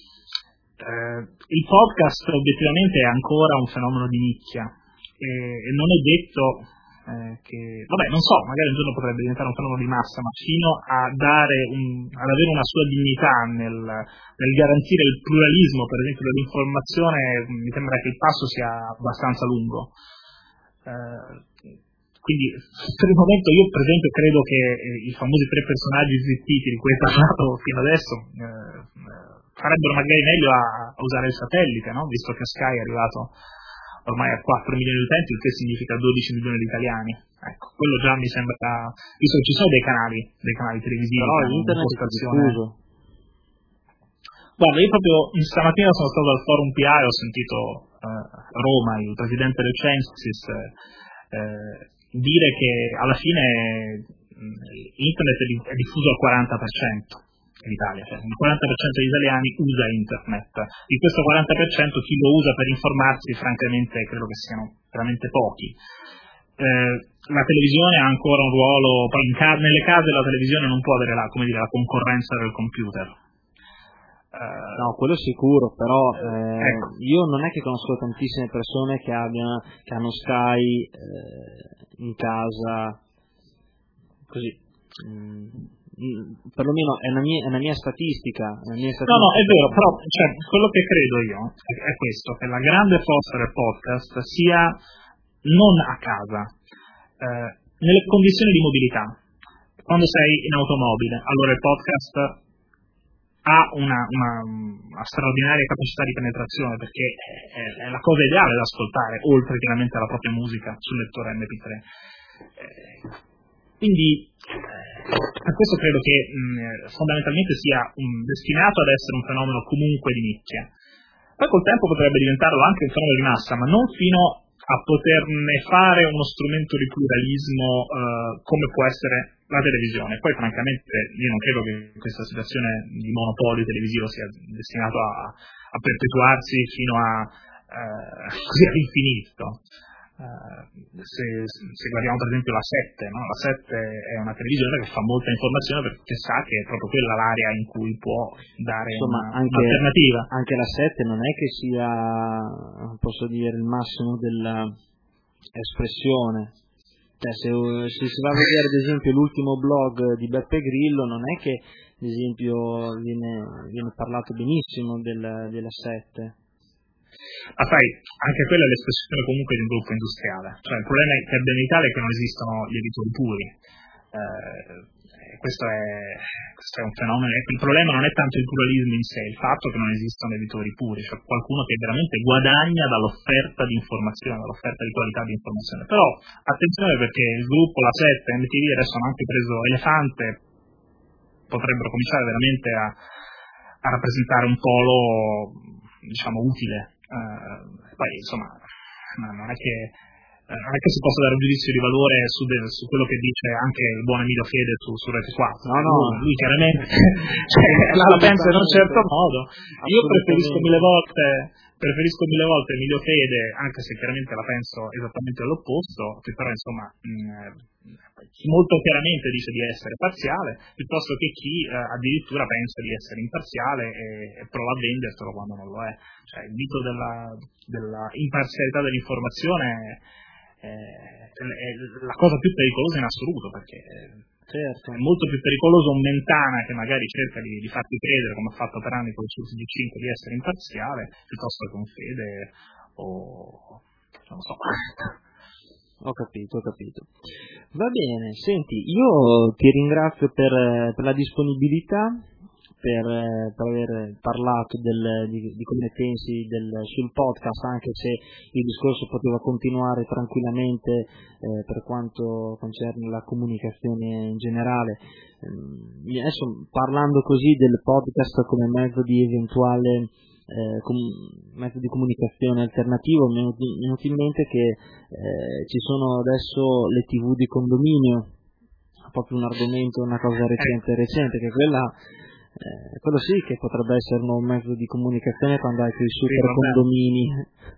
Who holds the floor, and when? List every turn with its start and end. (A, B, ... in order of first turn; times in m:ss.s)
0:00.8-0:19.9 A
0:20.8-0:21.5 A
0:22.2-0:33.3 A
0:34.1-0:42.6 A
0:41.2-0:42.8 B
0:44.6-0:50.7 A
0:51.3-1:05.8 A
1:06.6-1:13.2 A
1:14.3-1:14.9 A
1:14.7-1:23.0 B
1:16.6-1:16.9 A
1:24.3-1:29.8 B
1:29.1-1:34.8 A
1:35.4-1:36.5 A
1:37.2-1:39.2 A
1:39.8-1:42.4 A
1:43.4-1:51.8 A
1:52.6-1:53.1 A
1:53.8-2:00.7 A
2:01.4-2:19.6 A
2:20.2-2:30.3 A
2:28.9-2:34.8 B
2:35.6-2:36.5 B
2:37.2-2:46.4 B
2:47.6-2:53.5 A
2:54.1-3:10.4 A
3:11.5-3:13.0 A
3:13.8-3:18.6 A
3:19.2-3:20.0 A
3:20.5-3:37.6 A
3:25.6-3:26.2 B
3:27.5-3:29.1 B
3:29.8-3:30.8 B
3:38.2-3:50.0 A
3:50.6-3:54.2 A
3:54.5-3:55.0 B
3:54.9-4:05.2 A
4:06.0-4:07.1 B
4:07.7-4:12.2 B
4:12.8-4:38.3 B
4:39.1-4:42.0 B
4:42.6-4:47.4 B
4:46.3-4:46.8 A